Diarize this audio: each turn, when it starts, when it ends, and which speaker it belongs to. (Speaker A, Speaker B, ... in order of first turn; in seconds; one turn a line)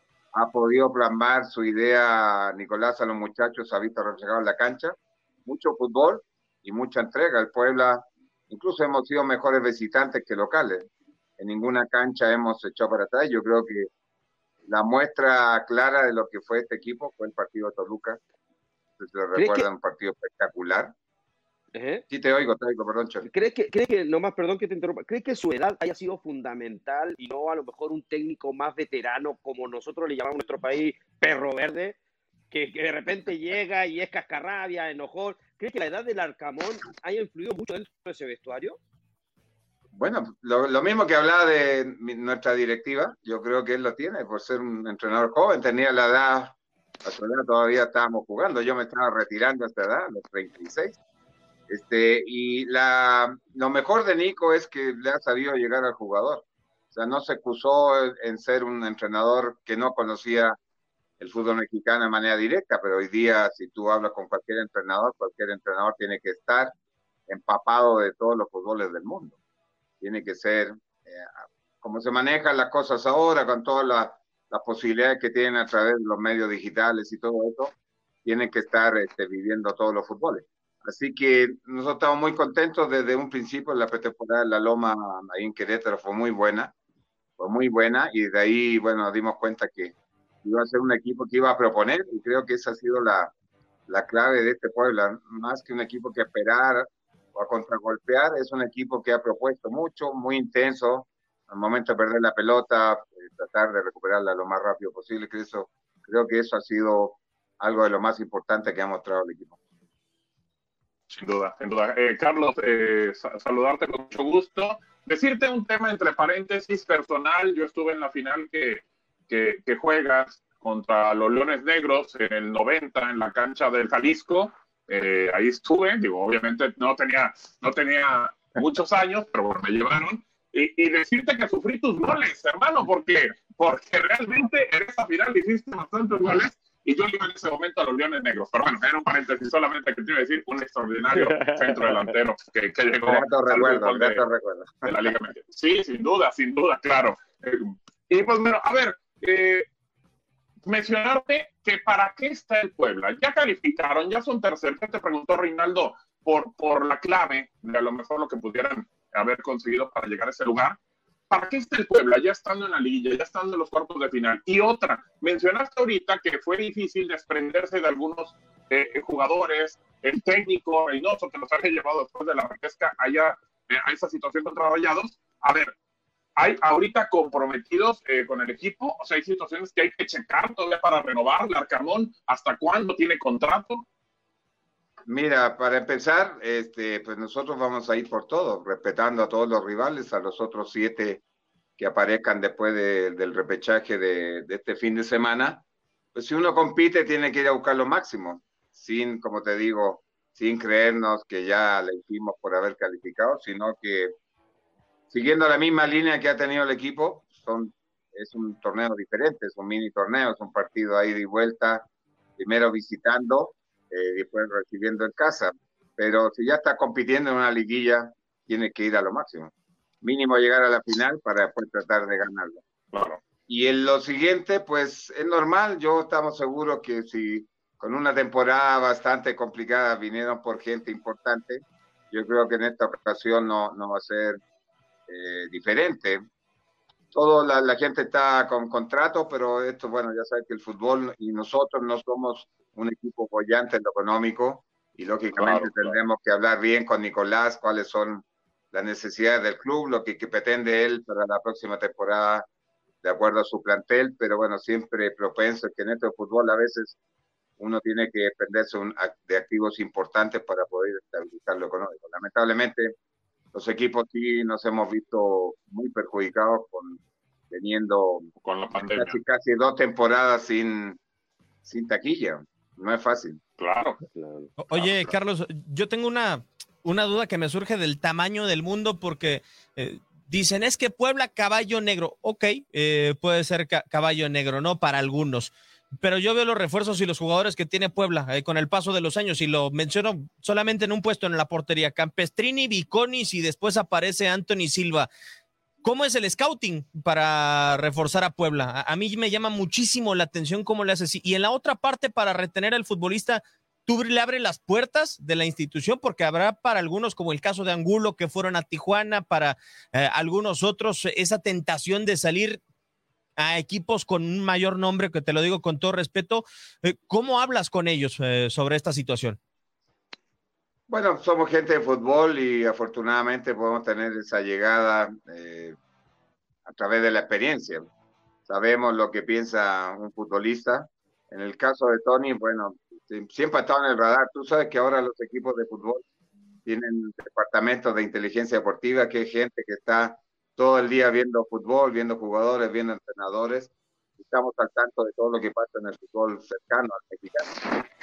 Speaker A: 0.3-13.9
Speaker A: 14.7-18.2
Speaker A: 19.0-20.9
Speaker B: 19.3-19.7
Speaker B: 21.8-22.0
Speaker A: 22.1-23.3
Speaker B: 23.2-32.0
Speaker B: 32.5-38.8
Speaker A: 40.0-51.0
Speaker A: 51.7-60.6
Speaker A: 61.2-66.7
Speaker A: 67.3-69.4
Speaker A: 70.0-77.7
Speaker A: 78.2-86.7
Speaker A: 87.4-93.3
Speaker A: 93.9-109.5
Speaker C: 111.1-144.2
Speaker A: 143.0-144.9
Speaker C: 144.8-149.7
Speaker C: 150.7-160.8
Speaker C: 161.3-175.7
Speaker C: 176.4-183.8
Speaker A: 185.1-191.2
Speaker A: 191.8-195.6
Speaker A: 196.2-204.1
Speaker A: 205.1-211.9
Speaker A: 212.4-222.6
Speaker C: 222.9-223.2
Speaker A: 223.5-234.4
Speaker A: 235.1-236.2
Speaker A: 237.1-252.4
Speaker C: 245.4-245.9
Speaker A: 253.0-257.0
Speaker A: 257.6-262.9
Speaker A: 263.5-267.0
Speaker A: 267.5-271.0
Speaker C: 268.4-269.2
Speaker A: 271.6-273.4
Speaker C: 273.6-274.0
Speaker B: 274.1-274.5
Speaker D: 274.6-295.1
Speaker C: 274.7-275.1
Speaker D: 295.8-312.6
Speaker D: 313.4-319.4
Speaker A: 320.9-325.8
Speaker A: 326.7-327.9
Speaker A: 328.5-336.0
Speaker A: 336.7-347.6